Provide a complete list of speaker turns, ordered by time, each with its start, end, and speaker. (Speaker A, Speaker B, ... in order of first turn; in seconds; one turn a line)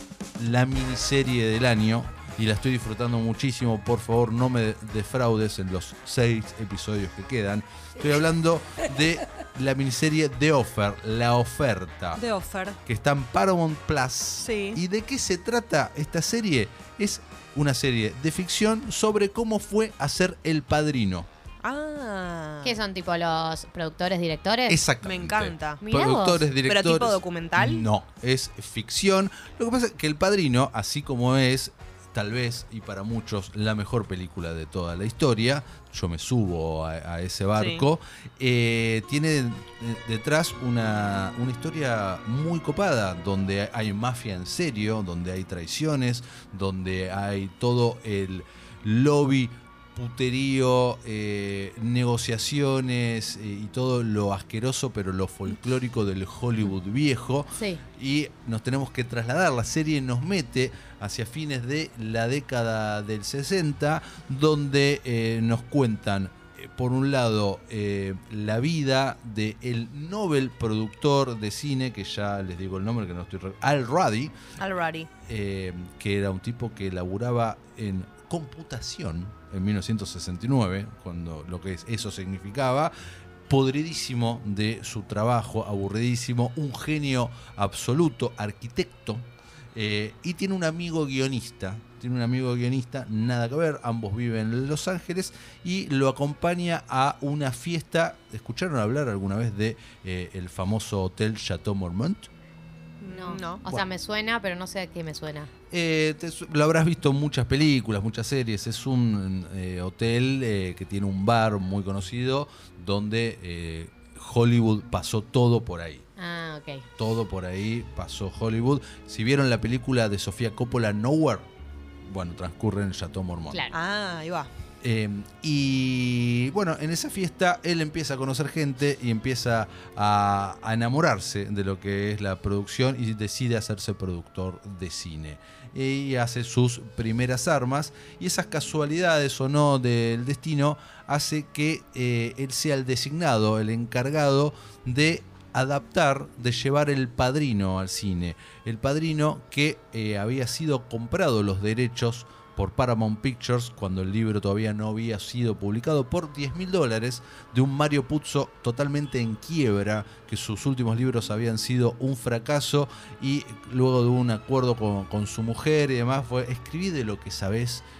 Speaker A: 0.4-12.2
Speaker B: 12.2-12.8
Speaker A: 12.8-21.3
Speaker B: 14.4-14.8
Speaker B: 21.6-22.8
Speaker C: 22.6-24.8
Speaker A: 24.7-74.3
Speaker B: 25.0-25.8
Speaker C: 25.8-26.5
Speaker B: 26.6-27.9
Speaker B: 37.6-37.9
Speaker C: 57.5-57.8
Speaker B: 74.6-75.1
Speaker A: 75.3-82.9
Speaker A: 83.5-102.3
Speaker B: 103.0-103.6
Speaker C: 103.1-105.5
Speaker A: 105.7-116.0
Speaker C: 116.2-116.8
Speaker A: 117.0-121.5
Speaker A: 122.1-123.6
Speaker B: 123.7-124.5
Speaker A: 124.8-167.8